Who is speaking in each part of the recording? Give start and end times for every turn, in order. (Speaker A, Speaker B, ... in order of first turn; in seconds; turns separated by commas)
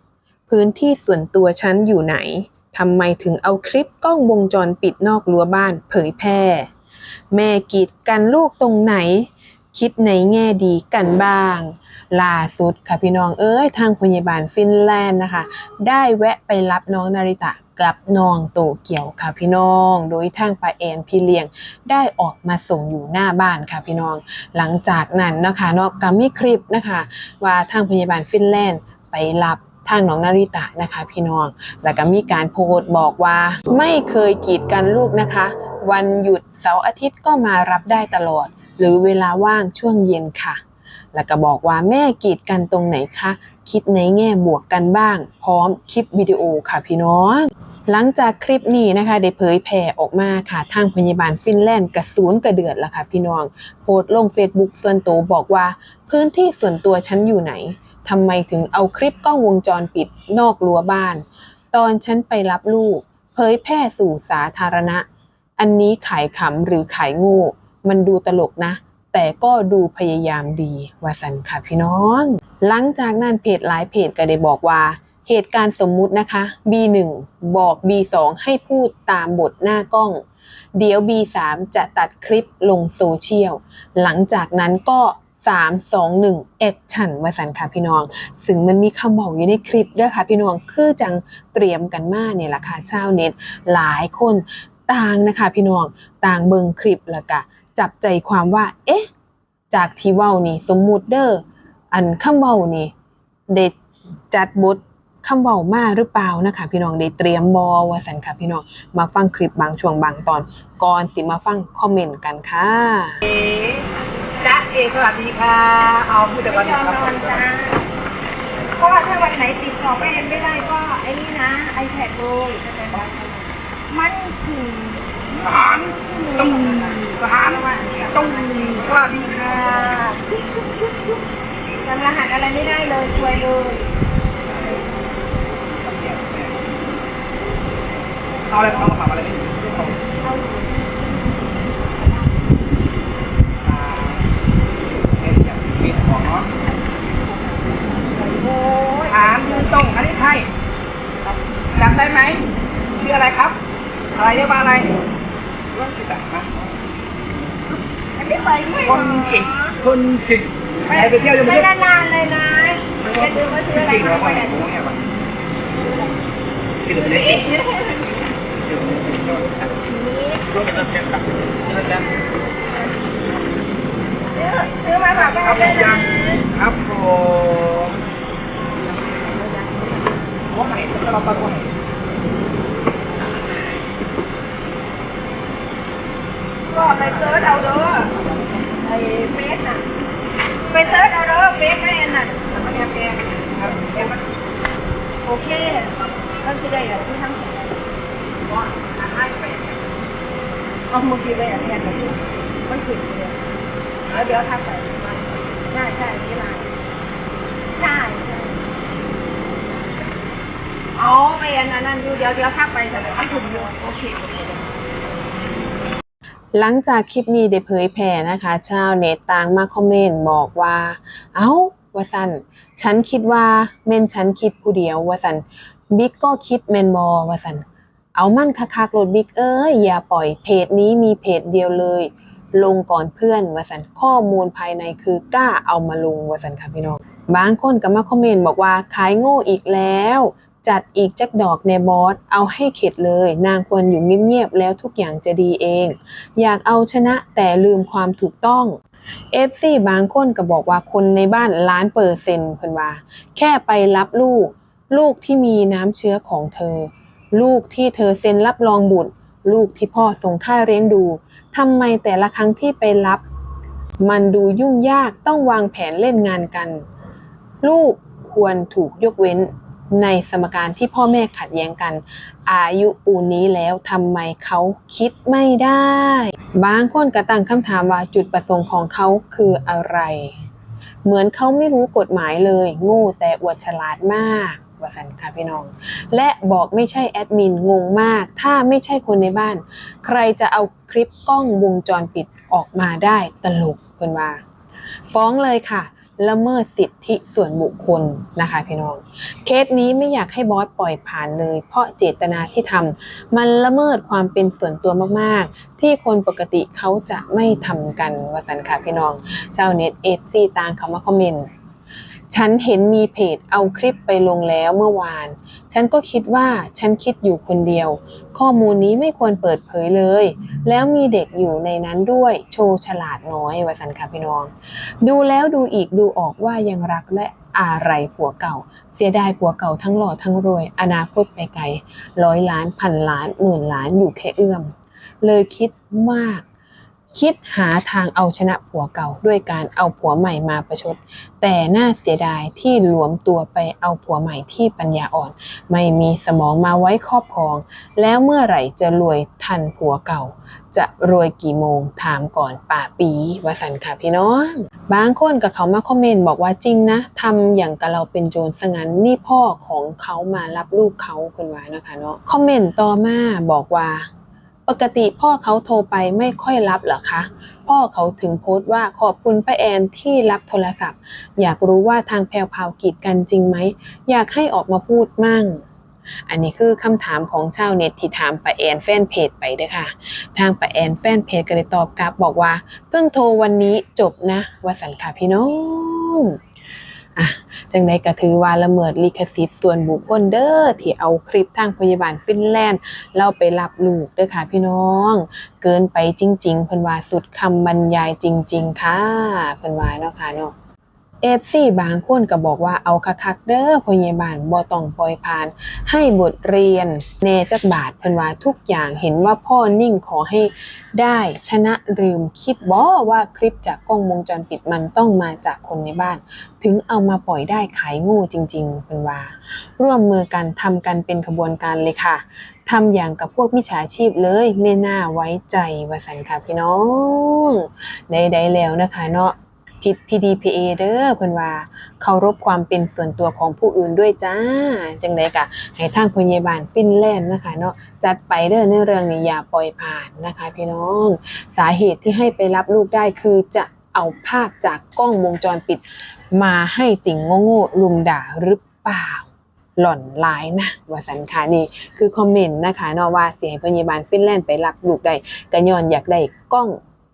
Speaker A: 0.5-6.7, Speaker A: 7.3-40.6, Speaker A: 41.1-65.0, Speaker A: 65.6-80.2, Speaker A: 80.8-99.1, Speaker A: 99.7-102.9, Speaker A: 103.5-103.7, Speaker A: 104.3-113.2, Speaker B: 114.4-117.4, Speaker C: 116.4-117.8, Speaker C: 118.8-125.1, Speaker B: 125.4-130.1, Speaker C: 126.1-130.3, Speaker C: 131.8-133.9, Speaker B: 134.5-134.8, Speaker B: 135.7-136.6, Speaker B: 138.5-140.0, Speaker C: 140.2-142.5, Speaker B: 143.6-144.3, Speaker B: 145.2-146.5, Speaker C: 147.2-149.9, Speaker B: 149.1-150.5, Speaker B: 151.8-152.4, Speaker B: 153.0-153.6, Speaker B: 154.2-154.9, Speaker B: 155.7-156.6, Speaker C: 158.2-159.8, Speaker B: 158.8-161.9, Speaker C: 160.9-164.7, Speaker B: 163.0-165.0, Speaker B: 166.8-167.5, Speaker C: 166.9-168.2, Speaker B: 168.6-169.7, Speaker C: 169.8-170.7, Speaker B: 170.5-172.1, Speaker C: 174.3-176.4, Speaker B: 175.2-178.0, Speaker C: 179.2-180.3, Speaker B: 180.5-181.8, Speaker C: 186.7-188.1, Speaker B: 188.2-188.5, Speaker C: 188.8-189.9, Speaker C: 190.7-192.5, Speaker B: 192.5-194.2, Speaker C: 195.2-197.8, Speaker B: 198.7-199.7, Speaker C: 200.9-203.5, Speaker C: 204.1-206.7, Speaker C: 207.7-208.6, Speaker C: 210.9-214.8, Speaker A: 216.5-248.8, Speaker A: 249.3-263.2, Speaker A: 264.0-266.8, Speaker A: 267.6-280.4, Speaker A: 281.0-294.4, Speaker A: 295.1-311.5, Speaker A: 312.3-324.5, Speaker A: 325.0-336.4, Speaker A: 337.1-364.1, Speaker A: 364.7-375.6, Speaker A: 376.3-386.4, Speaker A: 387.1-400.5, Speaker A: 401.2-456.8